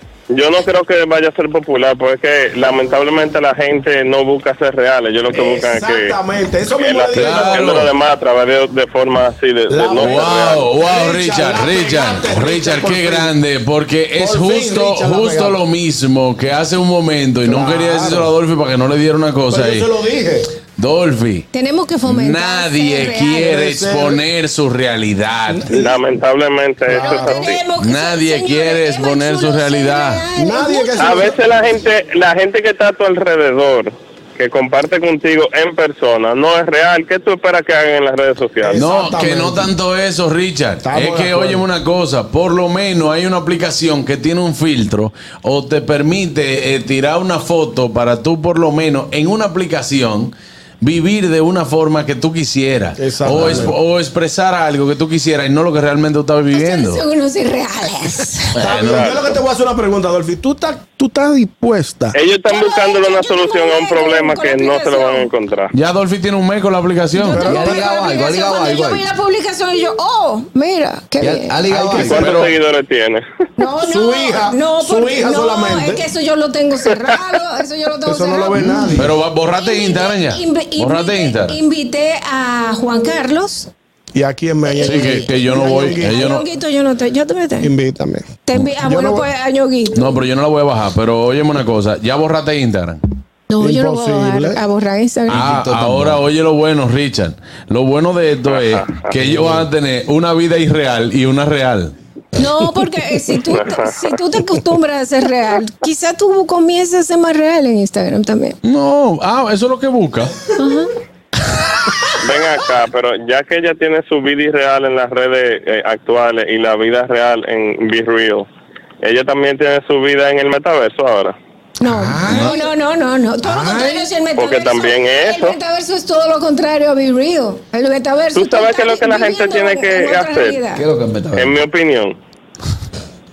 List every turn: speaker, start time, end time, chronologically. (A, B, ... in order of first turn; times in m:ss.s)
0:00.3-0:06.2 A
0:05.3-0:07.6 B
0:06.8-0:10.7 A
0:07.1-0:07.9 C
0:09.7-0:13.3 B
0:10.0-0:19.9 C
0:14.2-0:15.6 B
0:17.4-0:18.3 B
0:19.5-0:20.5 B
0:20.7-0:21.5 C
0:21.5-0:23.6 D
0:22.1-0:25.7 C
0:23.4-0:24.2 B
0:25.5-0:25.9 B
0:25.7-0:27.6 A
0:26.9-0:27.5 B
0:26.9-0:31.4 D
0:27.8-0:30.2 C
0:30.4-0:31.7 B
0:31.0-0:38.9 A
0:38.6-0:39.7 B
0:38.8-0:57.0 C
0:40.8-0:41.6 B
0:53.0-0:53.8 B
0:56.5-0:58.6 D
0:58.6-0:59.3 C
0:58.6-1:02.2 B
0:58.7-0:59.2 A
1:02.1-1:05.7 A
1:02.5-1:05.3 D
1:05.7-1:07.6 C
1:07.2-1:12.1 D
1:07.3-1:07.6 B
1:07.4-1:09.1 E
1:11.2-1:12.4 E
1:11.8-1:12.2 B
1:12.0-1:13.2 A
1:12.2-1:12.5 C
1:13.6-1:18.6 D
1:13.8-1:16.0 B
1:18.0-1:19.1 B
1:18.5-1:19.1 E
1:19.0-1:21.6 C
1:19.5-1:23.7 D
1:24.1-1:26.4 B
1:24.7-1:27.7 D
1:24.8-1:26.4 C
1:27.6-1:29.3 B
1:28.5-1:30.2 D
1:30.0-1:33.0 C
1:33.5-1:35.4 D
1:33.6-1:34.6 B
1:35.3-1:36.2 E
1:35.3-1:41.9 C
1:38.5-1:39.1 A
1:42.4-1:48.6 D
1:43.5-1:44.0 A
1:48.6-1:50.4 C
1:50.6-1:50.9 D
1:52.2-1:58.5 A
1:59.0-2:01.4 A
2:01.8-2:10.8 D
2:01.8-2:02.6 E
2:03.5-2:04.0 E
2:04.4-2:05.6 A
2:08.4-2:10.6 A
2:10.7-2:11.6 E
2:11.4-2:12.2 A